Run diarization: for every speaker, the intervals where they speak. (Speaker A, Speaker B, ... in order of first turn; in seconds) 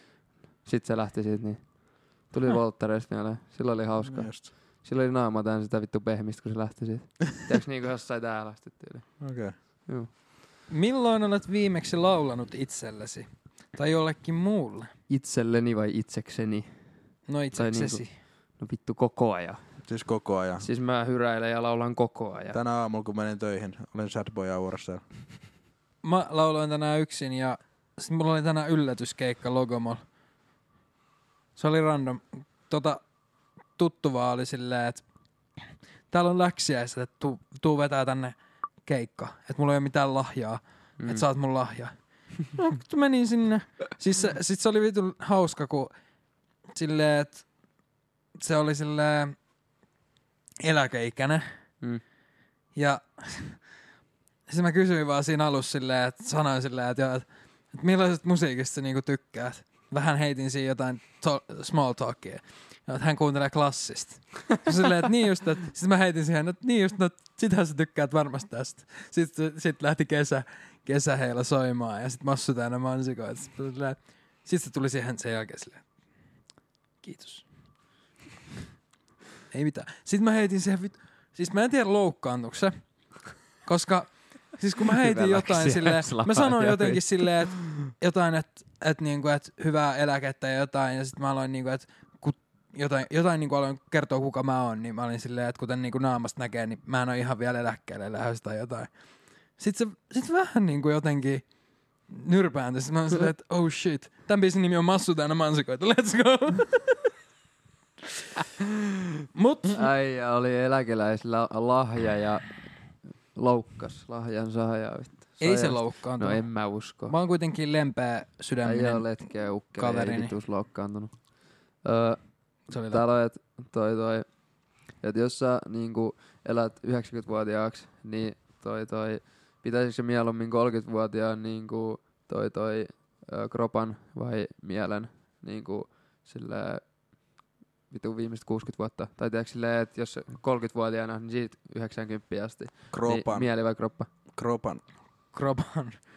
Speaker A: 0.6-9.1, 15.1-16.7, 17.5-18.1, 18.6-19.6, 20.6-22.6, 41.0-41.2, 84.8-87.6, 109.7-112.7, 113.3-117.1, 118.6-136.9, 137.9-144.1
Speaker B: 4.0-4.5, 9.2-9.6, 19.8-20.6, 22.5-25.0, 142.9-143.5, 144.3-144.8
Speaker C: 10.7-14.9, 17.3-18.1, 26.0-30.0, 31.6-33.0, 33.8-35.0, 36.1-38.4, 38.9-45.9, 46.8-47.5, 48.4-49.4, 50.6-51.4, 52.8-53.6, 54.5-75.8, 77.0-77.5, 79.5-82.8, 83.7-98.9, 99.6-101.5, 102.1-107.1, 109.3-109.9, 115.4-120.3, 122.7-123.0, 145.3-146.0